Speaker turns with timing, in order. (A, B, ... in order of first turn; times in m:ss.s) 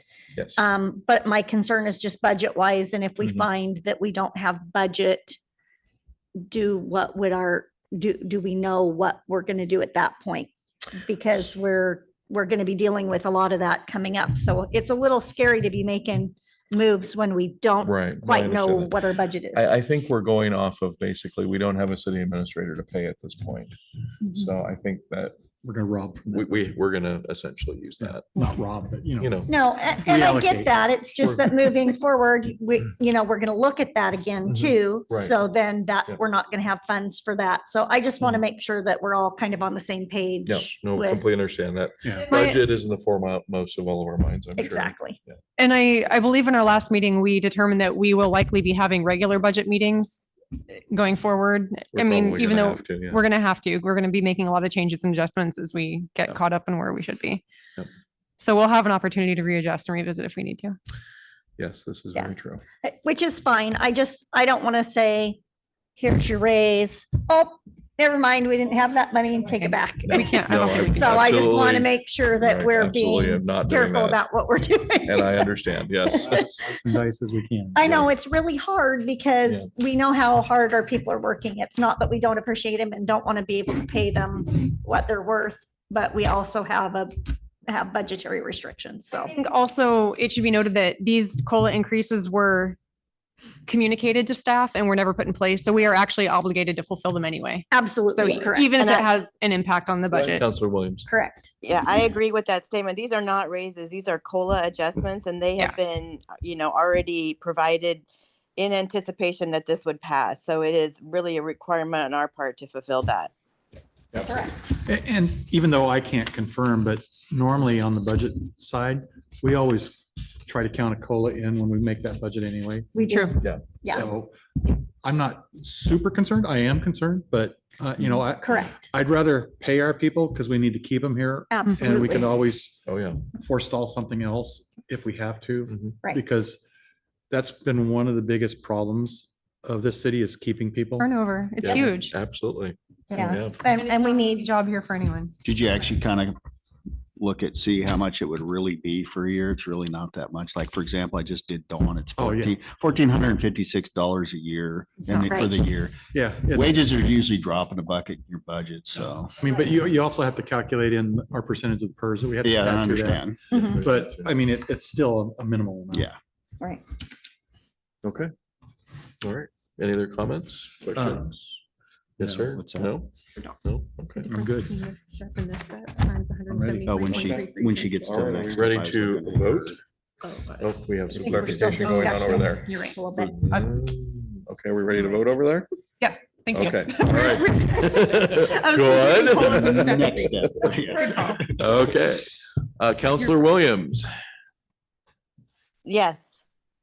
0:00.6-0:05.4 A
0:06.4-0:19.8 A
0:17.8-0:18.9 B
0:19.5-0:23.8 B
0:24.2-0:24.5 A
0:24.3-0:25.4 B
0:25.6-0:26.6 C
0:26.2-0:28.2 B
0:28.0-0:31.7 C
0:29.2-0:29.5 B
0:29.5-0:41.2 A
0:34.5-0:35.3 B
0:40.4-0:45.3 B
0:42.0-0:42.3 C
0:42.3-0:42.6 D
0:44.6-0:45.2 A
0:45.6-0:50.3 D
0:50.9-0:57.4 D
0:51.9-0:53.2 B
0:58.4-1:00.8 D
1:01.6-1:02.6 B
1:02.1-1:05.4 A
1:06.0-1:16.3 A
1:09.5-1:11.3 D
1:10.0-1:14.2 B
1:15.0-1:16.5 B
1:16.2-1:18.0 C
1:17.7-1:29.3 A
1:29.3-1:32.8 D
1:33.6-1:40.5 D
1:37.7-1:39.1 A
1:38.2-1:38.9 E
1:40.1-1:41.0 B
1:41.0-1:41.5 A
1:41.6-1:48.0 E
1:48.6-1:53.3 E
1:54.1-2:03.2 C
1:54.2-1:54.6 A
2:02.9-2:04.1 A
2:03.4-2:03.8 B
2:03.8-2:12.8 C
2:08.4-2:08.8 A
2:11.5-2:12.3 A
2:12.8-2:13.2 B
2:13.3-2:16.6 C
2:15.7-2:16.0 B
2:17.3-2:21.7 C
2:21.0-2:22.2 D
2:21.6-2:23.6 B
2:23.1-2:25.3 D
2:23.1-2:24.5 A
2:25.4-2:26.4 F
2:27.2-2:39.4 F
2:32.2-2:32.6 C
2:35.0-2:35.5 A
2:36.1-2:36.8 C
2:39.0-2:46.1 C
2:42.4-2:43.4 F
2:43.5-2:43.8 A
2:43.6-2:44.3 B
2:48.0-2:48.3 B
2:49.2-2:51.6 B
2:52.2-2:53.1 B
2:52.2-2:52.5 C
2:52.5-2:53.0 F
2:53.6-2:54.3 B
2:54.2-2:58.4 D
2:54.2-2:54.8 C
2:56.5-2:57.0 C
2:56.8-2:59.8 F
2:57.0-2:57.4 B
2:58.0-2:59.8 B
3:00.2-3:00.6 D
3:00.6-3:05.7 B
3:01.1-3:03.4 A
3:01.8-3:03.0 D
3:06.0-3:11.4 D
3:06.5-3:10.8 B
3:09.3-3:11.7 F
3:11.5-3:14.0 B
3:15.8-3:16.4 E